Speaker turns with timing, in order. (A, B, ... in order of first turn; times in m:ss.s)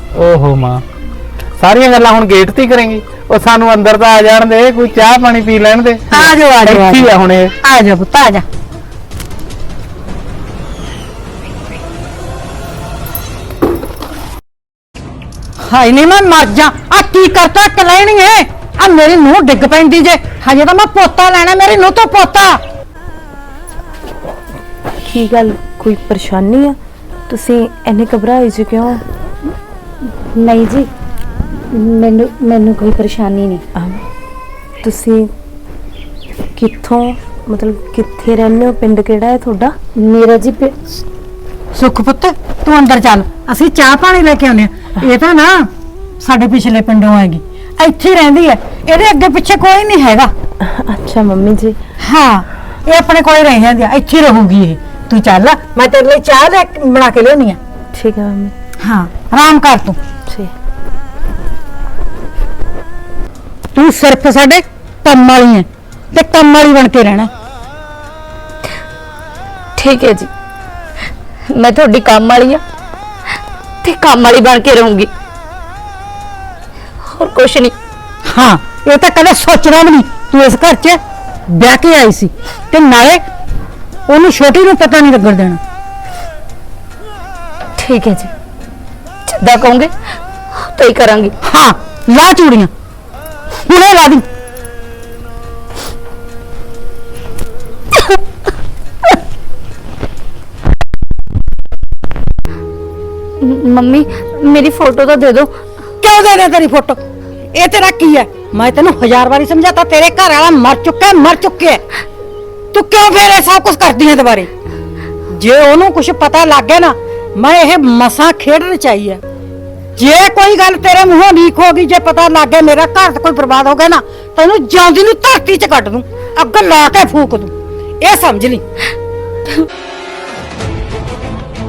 0:00.1-0:00.8 A
0:01.6-0:07.5 A
0:06.1-0:08.4 B
0:15.6-0:22.6 B
0:25.0-0:29.0 C
0:30.3-0:30.9 D
0:31.7-0:33.6 D
0:33.8-0:34.0 C
0:34.8-0:35.3 C
0:36.6-0:39.8 C
0:40.0-0:40.8 D
0:41.7-0:45.7 B
0:46.2-0:50.3 B
0:50.6-0:51.8 C
0:52.0-0:57.6 B
0:57.9-0:58.5 C
0:58.8-1:00.0 B
1:03.7-1:07.3 B
1:09.8-1:10.3 D
1:11.5-1:12.6 D
1:13.8-1:15.1 D
1:17.0-1:17.7 D
1:18.3-1:23.2 B
1:24.1-1:25.6 B
1:27.8-1:28.3 D
1:29.3-1:29.9 D
1:30.5-1:31.3 D
1:31.4-1:32.7 B
1:33.6-1:34.3 B
1:43.4-1:45.5 D
1:46.0-1:47.0 B
1:47.5-1:51.8 B
1:52.7-1:54.5 B
1:55.3-1:59.2 B
2:00.0-2:08.6 B